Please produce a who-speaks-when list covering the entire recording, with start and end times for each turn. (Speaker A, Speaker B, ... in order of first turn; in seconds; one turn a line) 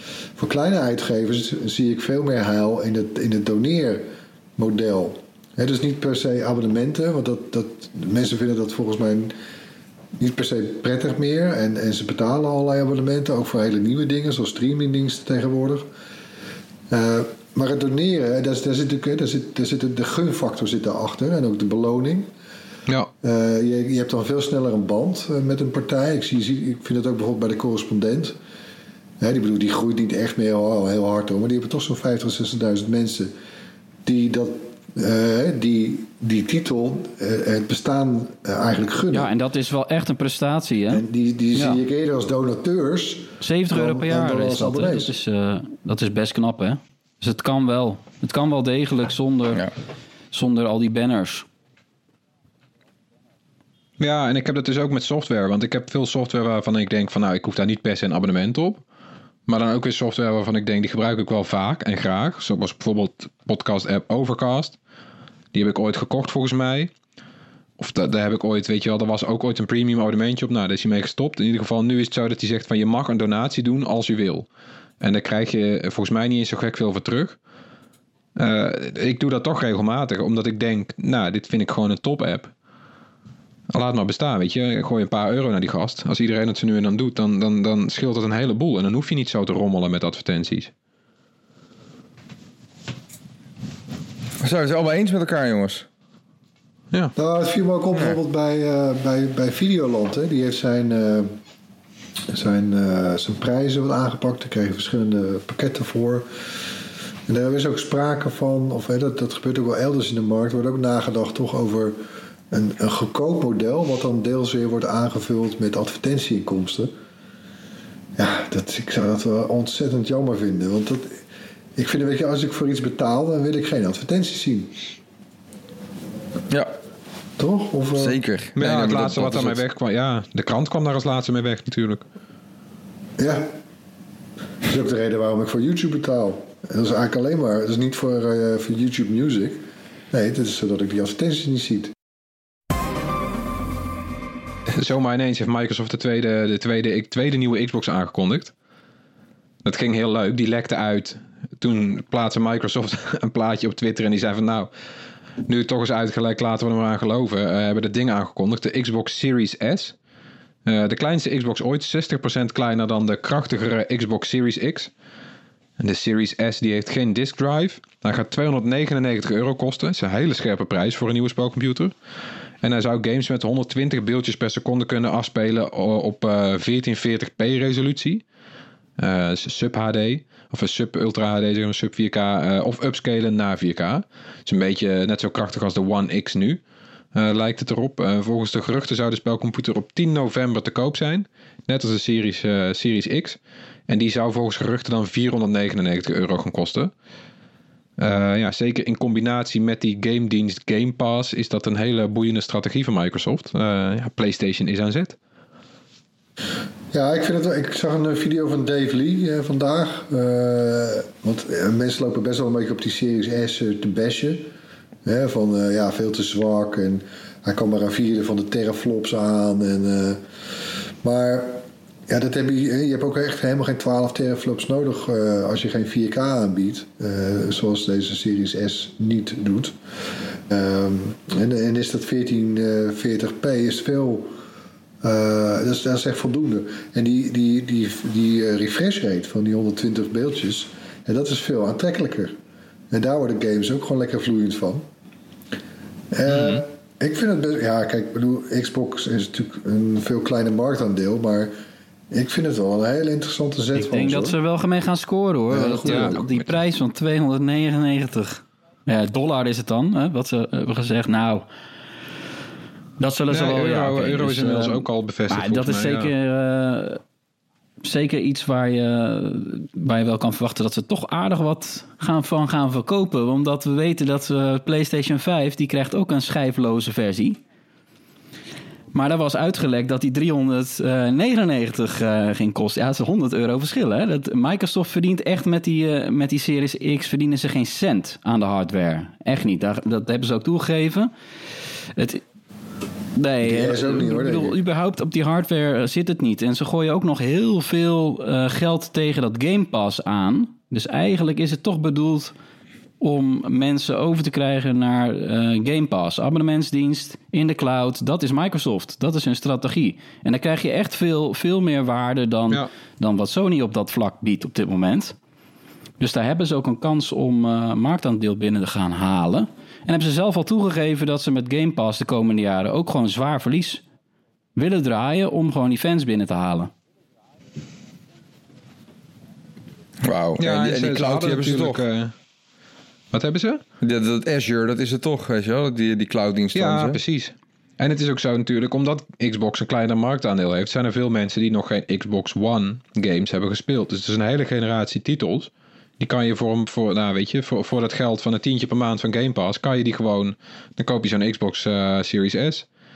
Speaker A: 0.4-4.0
Speaker A: 4.6-9.3
Speaker A: 10.2-15.9
Speaker A: 16.9-22.3
Speaker A: 23.2-28.4
Speaker A: 29.2-33.3
Speaker A: 34.1-39.3
Speaker B: 39.1-41.0
Speaker A: 40.9-45.1
Speaker B: 41.5-41.8
Speaker B: 43.4-49.7
Speaker B: 50.3-51.5
Speaker C: 54.0-58.8
Speaker C: 59.5-64.8
Speaker C: 65.5-66.9
Speaker C: 67.8-74.5
Speaker C: 75.0-77.4
Speaker C: 78.4-82.5
Speaker C: 83.7-90.7
Speaker D: 94.4-95.9
Speaker A: 97.2-101.3
Speaker A: 102.3-106.3
Speaker A: 107.3-112.0
Speaker A: 112.5-116.9
Speaker A: 118.2-121.2
Speaker A: 121.8-124.8
Speaker A: 127.4-128.2
Speaker D: 128.0-129.6
Speaker C: 128.6-132.0
Speaker A: 133.2-133.5
Speaker A: 134.7-141.9
Speaker C: 144.7-148.5
Speaker C: 149.6-154.7
Speaker C: 155.5-159.9
Speaker C: 160.7-164.9
Speaker C: 165.8-171.9
Speaker C: 172.6-178.2
Speaker C: 179.0-186.6
Speaker C: 187.1-196.9
Speaker C: 198.0-205.2
Speaker A: 206.9-214.5
Speaker A: 215.1-220.2
Speaker A: 221.0-229.8
Speaker A: 230.3-234.3
Speaker A: 235.0-242.4
Speaker A: 242.9-244.9
Speaker A: 246.1-251.6
Speaker C: 246.3-246.6
Speaker A: 252.1-254.4
Speaker B: 253.7-261.5
Speaker A: 255.5-256.2
Speaker C: 255.8-256.4
Speaker B: 263.0-267.0
Speaker C: 263.3-266.1
Speaker B: 267.8-277.4
Speaker B: 278.9-291.1
Speaker B: 292.0-292.2
Speaker B: 293.2-302.3
Speaker A: 293.4-294.6
Speaker B: 303.0-315.2
Speaker B: 316.0-323.8
Speaker B: 324.6-326.7
Speaker D: 330.0-331.8
Speaker C: 330.4-332.1
Speaker C: 333.1-333.6
Speaker D: 333.8-337.0
Speaker C: 336.5-352.7